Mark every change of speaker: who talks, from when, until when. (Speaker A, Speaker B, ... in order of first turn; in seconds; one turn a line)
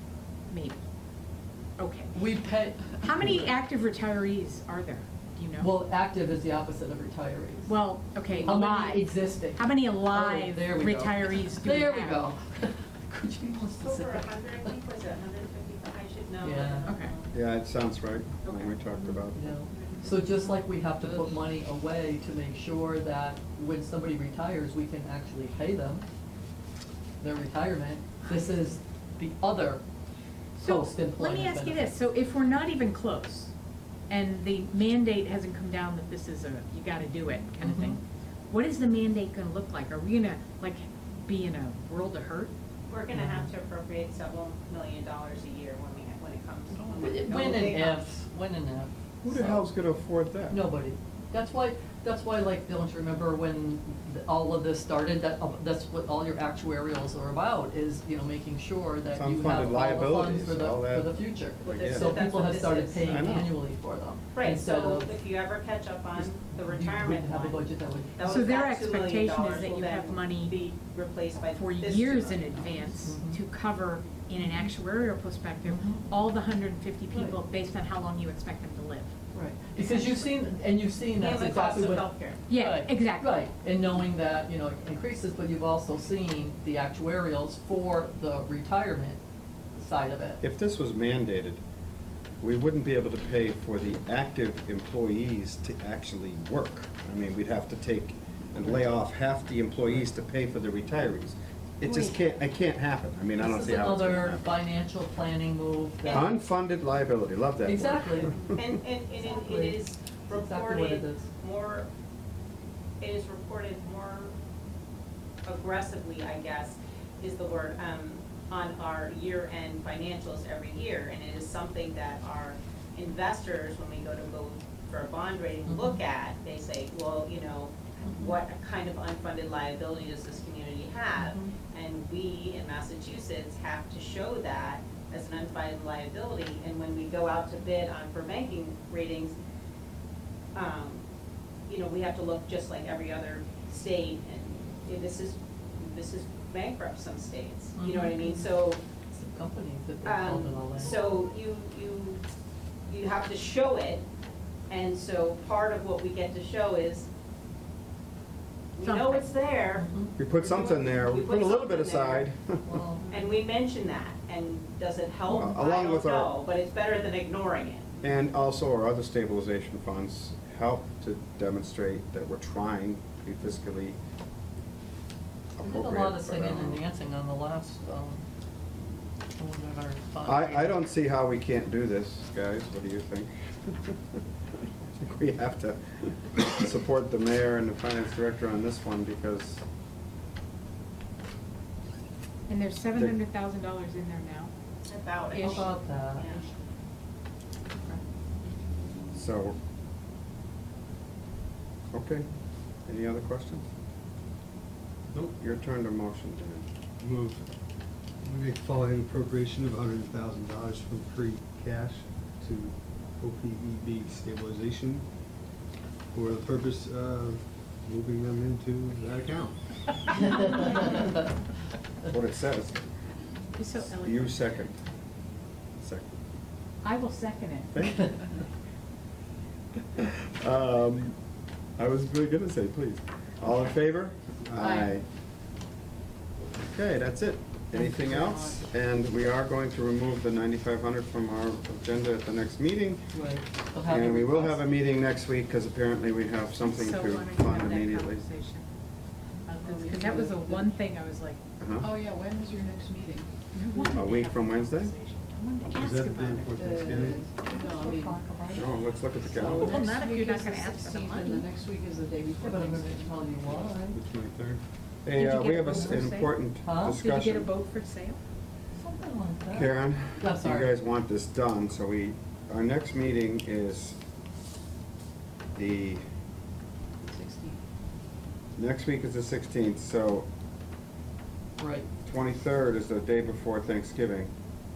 Speaker A: 0.5-0.8
Speaker A: 1.8-2.2
Speaker B: 2.1-3.5
Speaker A: 3.0-5.7
Speaker B: 5.6-7.8
Speaker A: 7.7-12.3
Speaker B: 8.4-14.7
Speaker C: 13.8-17.3
Speaker B: 16.4-16.9
Speaker A: 16.9-17.1
Speaker D: 17.3-19.5
Speaker B: 19.3-26.1
Speaker C: 19.7-20.1
Speaker B: 27.2-29.8
Speaker A: 30.6-33.5
Speaker B: 30.6-32.0
Speaker A: 34.1-42.5
Speaker B: 37.6-38.0
Speaker C: 42.9-48.1
Speaker B: 43.1-43.5
Speaker B: 46.7-49.7
Speaker D: 49.2-50.6
Speaker B: 50.5-65.1
Speaker D: 59.1-62.1
Speaker C: 61.6-63.2
Speaker D: 63.0-63.5
Speaker C: 64.3-67.6
Speaker B: 66.2-68.2
Speaker C: 68.2-72.8
Speaker A: 68.2-70.6
Speaker A: 71.5-79.2
Speaker B: 73.0-73.4
Speaker B: 74.4-74.7
Speaker B: 75.7-76.1
Speaker B: 79.3-89.2
Speaker A: 79.8-80.4
Speaker C: 81.2-82.4
Speaker A: 82.5-83.5
Speaker B: 89.8-90.4
Speaker D: 90.4-91.6
Speaker D: 92.4-104.5
Speaker B: 98.6-99.0
Speaker A: 101.9-102.1
Speaker B: 103.4-106.4
Speaker C: 106.0-106.3
Speaker D: 106.1-108.7
Speaker B: 107.6-108.4
Speaker C: 108.3-111.9
Speaker B: 109.2-111.2
Speaker C: 113.0-114.4
Speaker C: 115.5-139.4
Speaker B: 125.7-126.0
Speaker B: 128.1-128.3
Speaker B: 131.2-131.5
Speaker C: 140.6-141.1
Speaker C: 141.7-148.8
Speaker B: 147.8-148.5
Speaker B: 149.1-151.0
Speaker C: 150.0-152.2
Speaker C: 152.9-154.1
Speaker C: 154.7-157.1
Speaker C: 158.8-162.3
Speaker A: 158.8-159.3
Speaker B: 159.8-160.2
Speaker D: 160.2-162.6
Speaker B: 162.6-163.1
Speaker C: 163.1-168.0
Speaker D: 165.3-166.3
Speaker D: 168.0-174.0
Speaker D: 175.6-176.8
Speaker B: 175.6-178.2
Speaker B: 179.4-180.8
Speaker D: 180.2-184.0
Speaker D: 185.0-189.6
Speaker A: 192.5-194.5
Speaker C: 194.8-196.5
Speaker B: 195.3-196.4
Speaker D: 199.1-199.6
Speaker D: 201.9-202.3
Speaker D: 202.9-203.7
Speaker D: 205.1-206.7
Speaker E: 207.0-207.4
Speaker E: 208.2-215.1
Speaker E: 216.1-219.6
Speaker B: 220.3-220.6
Speaker D: 222.1-222.9
Speaker A: 223.6-224.4
Speaker D: 223.8-224.8
Speaker D: 225.8-226.1
Speaker A: 226.8-228.1
Speaker D: 227.7-228.3
Speaker D: 230.0-231.2
Speaker D: 231.8-235.0
Speaker E: 234.5-234.8
Speaker B: 234.6-234.9
Speaker D: 236.7-243.1
Speaker B: 237.8-238.6
Speaker B: 243.1-244.6
Speaker D: 243.8-248.2
Speaker A: 246.6-248.7
Speaker A: 249.5-251.4
Speaker F: 249.6-250.8
Speaker D: 251.6-251.9
Speaker F: 251.8-253.3
Speaker A: 253.5-256.7
Speaker D: 253.9-254.9
Speaker E: 255.7-257.2
Speaker F: 256.6-258.2
Speaker B: 257.3-258.7
Speaker D: 258.5-259.9
Speaker F: 259.3-263.3
Speaker A: 259.5-261.5
Speaker B: 262.4-264.0
Speaker E: 263.7-264.6
Speaker D: 265.0-267.5
Speaker A: 265.1-268.2
Speaker B: 265.6-266.1
Speaker B: 266.6-267.0
Speaker B: 268.8-270.7
Speaker D: 269.5-274.0
Speaker D: 275.6-276.0
Speaker F: 277.1-277.6
Speaker D: 278.6-280.3
Speaker B: 281.6-281.9
Speaker D: 282.1-284.3